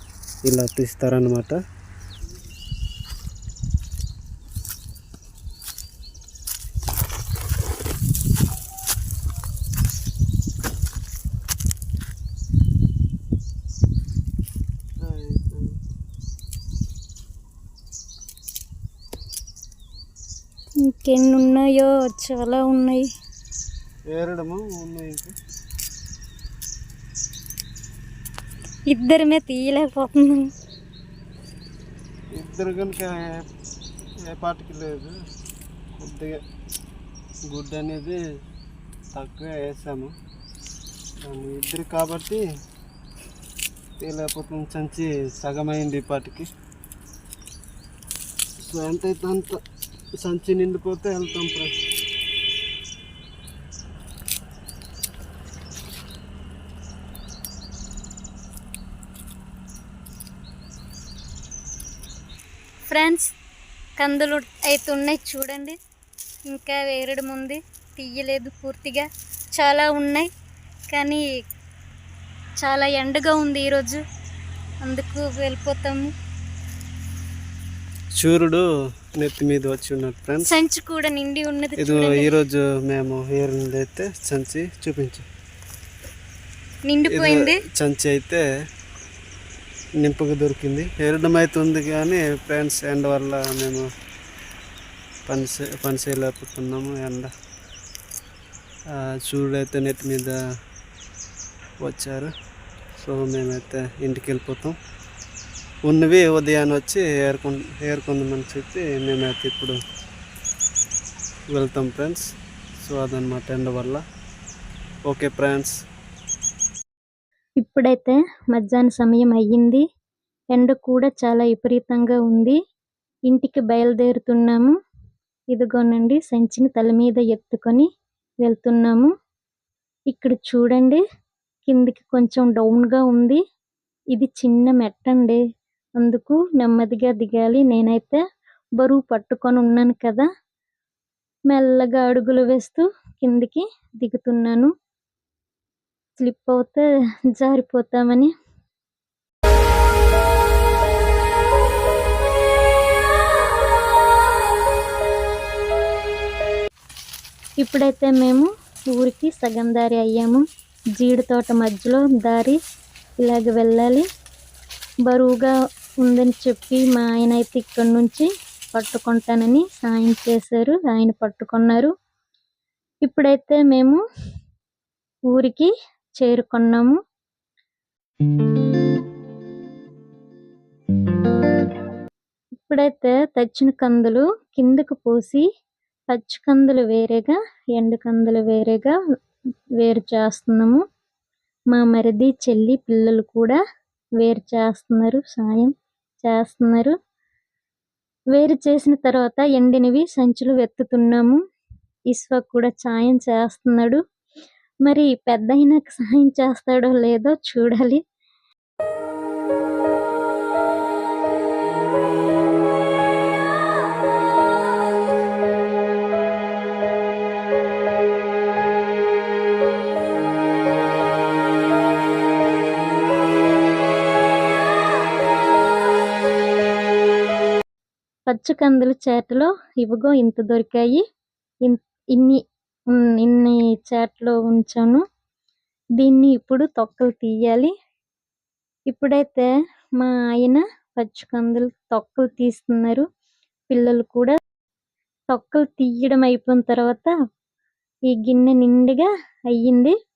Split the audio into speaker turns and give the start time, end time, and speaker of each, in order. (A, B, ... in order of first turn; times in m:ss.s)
0:00.5-0:01.6 A
0:15.0-0:15.8 A
0:20.8-0:23.1 B
0:24.1-0:25.4 A
0:28.9-0:30.5 B
0:32.4-0:33.2 A
0:34.3-0:35.1 A
0:36.0-0:36.4 A
0:37.5-0:38.2 A
0:39.1-0:40.1 A
0:41.2-0:42.4 A
0:44.0-0:46.5 A
0:48.6-0:49.6 A
0:50.2-0:51.7 A
1:02.9-1:03.3 B
1:04.0-1:05.8 B
1:06.5-1:10.3 B
1:10.9-1:11.2 B
1:12.6-1:14.0 B
1:14.8-1:16.1 B
1:18.2-1:18.6 A
1:19.2-1:20.5 A
1:20.4-1:22.4 B
1:21.8-1:25.2 A
1:26.9-1:27.6 B
1:27.1-1:28.4 A
1:30.0-1:33.9 A
1:35.3-1:37.3 A
1:39.0-1:40.4 A
1:41.8-1:42.3 A
1:43.0-1:44.8 A
1:45.9-1:49.8 A
1:51.5-1:52.2 A
1:52.8-1:54.0 A
1:55.1-1:55.8 A
1:57.6-1:59.8 B
2:00.5-2:02.6 B
2:03.3-2:04.8 B
2:05.5-2:07.9 B
2:08.4-2:09.1 B
2:10.1-2:11.0 B
2:11.7-2:13.4 B
2:14.1-2:15.4 B
2:16.0-2:18.2 B
2:18.8-2:20.3 B
2:21.5-2:24.7 B
2:26.2-2:28.3 B
2:37.6-2:40.4 B
2:41.0-2:42.6 B
2:43.2-2:44.1 B
2:45.1-2:51.9 B
2:53.0-2:54.0 B
2:55.3-2:57.0 B
3:02.7-3:05.4 B
3:06.1-3:09.0 B
3:09.8-3:10.8 B
3:11.7-3:13.6 B
3:14.2-3:17.0 B
3:18.3-3:21.4 B
3:22.1-3:24.0 B
3:24.8-3:28.0 B
3:48.3-3:51.0 B
3:51.7-3:55.0 B
3:56.0-3:57.7 B
3:58.9-4:03.0 B
4:03.7-4:04.4 B
4:05.3-4:07.1 B
4:08.1-4:09.9 B